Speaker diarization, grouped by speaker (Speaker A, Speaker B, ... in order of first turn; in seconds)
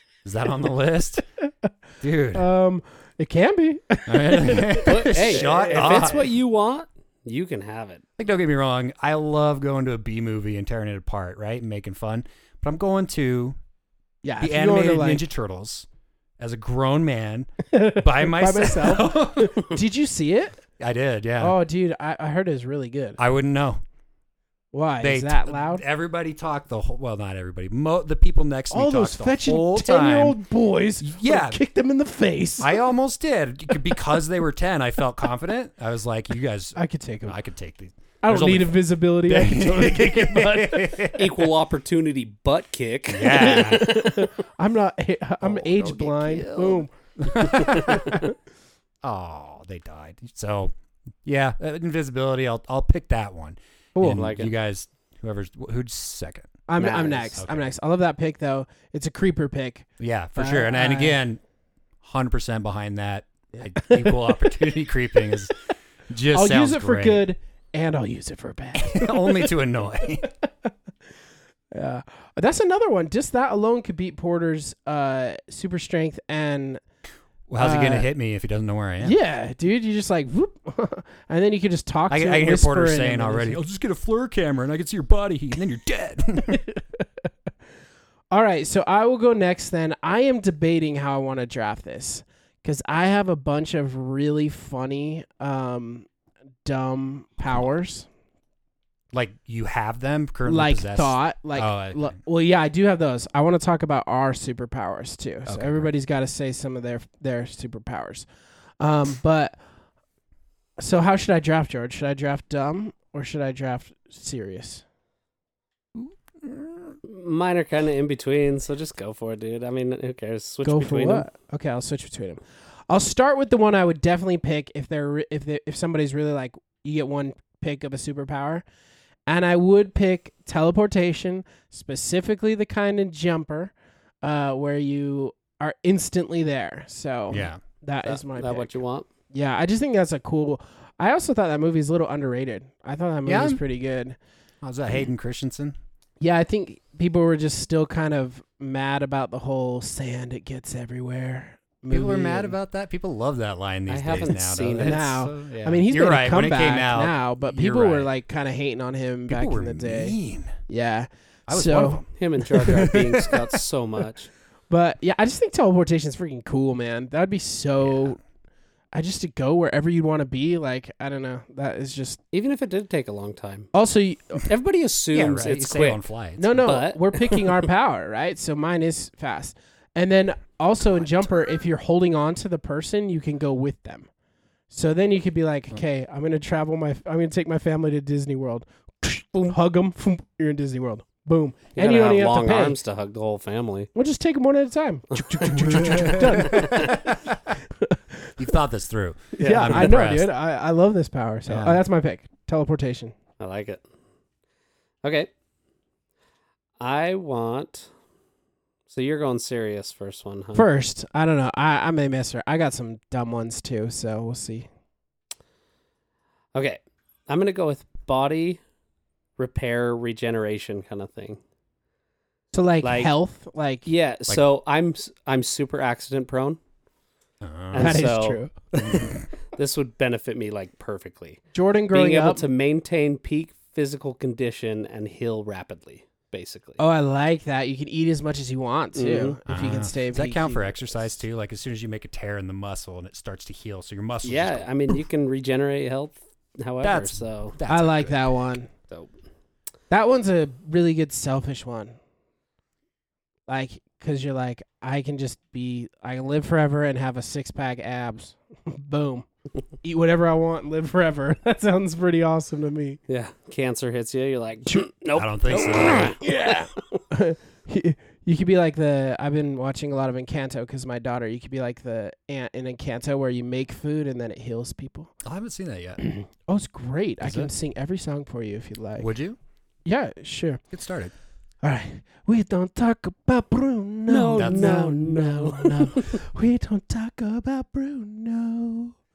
Speaker A: 0.2-1.2, 2.0-2.5, 4.1-6.2, 8.2-13.6, 14.4-15.9, 16.4-19.6, 20.8-21.6, 23.2-23.8, 25.0-30.4, 31.0-31.6, 32.6-41.5, 43.1-43.9, 45.4-48.3, 49.0-56.6, 57.4-57.7, 60.0-61.4, 62.0-65.5, 66.1-67.2, 68.8-70.3, 77.5-79.2, 82.1-86.6, 99.1-102.2, 105.5-105.9, 116.0-117.0, 137.3-137.6, 143.3-143.6, 144.6-145.8, 151.9-158.1, 159.3-160.6, 161.5-163.5, 167.8-168.2, 175.1-176.7, 195.6-197.6, 198.4-200.3, 201.5-201.8, 227.4-228.0, 228.8-229.3, 239.5-245.0, 246.8-248.2, 265.1-266.2, 275.2-276.0, 277.2-277.5, 279.0-279.4, 280.7-281.1, 284.4-284.8
Speaker B: 2.3-6.3, 14.2-15.2, 17.7-20.6, 21.4-23.2, 24.7-25.8, 28.7-32.8, 36.8-37.4, 38.2-41.1, 43.3-48.3, 56.7-61.2, 63.6-64.4, 66.3-69.5, 70.2-70.7, 71.7-76.8, 77.6-78.1, 79.0-83.6, 88.3-96.1, 96.7-98.1, 100.5-108.3, 108.8-109.6, 110.8-114.8, 120.6-128.6, 129.3-138.8, 139.3-144.2, 146.2-152.6, 154.8-162.1, 164.7-168.2, 168.9-172.2, 173.7-174.5, 176.4-184.1, 184.7-192.8, 193.9-197.1, 197.8-198.3, 199.4-203.2, 210.6-214.7, 222.5-223.9, 227.8-229.2, 231.5-232.4, 236.8-241.2, 247.7-248.7, 249.9-252.0, 253.5-259.3, 259.8-263.0, 266.2-275.1, 276.0-279.1, 279.9-280.6, 281.6-288.9
Speaker C: 4.8-8.0, 41.1-44.3, 54.0-54.5, 56.8-57.4, 117.0-121.3, 138.1-139.1, 153.9-155.1, 162.2-164.3, 172.3-173.7, 174.5-176.0, 176.6-177.6, 191.8-193.9, 195.2-197.0, 199.4-200.0, 203.4-203.8, 205.0-205.3, 206.8-207.9, 208.9-210.7, 216.5-218.6, 219.4-221.4, 222.8-223.1, 223.8-226.6, 227.7-236.8, 238.9-239.4, 244.2-247.6, 263.1-267.0, 284.1-286.2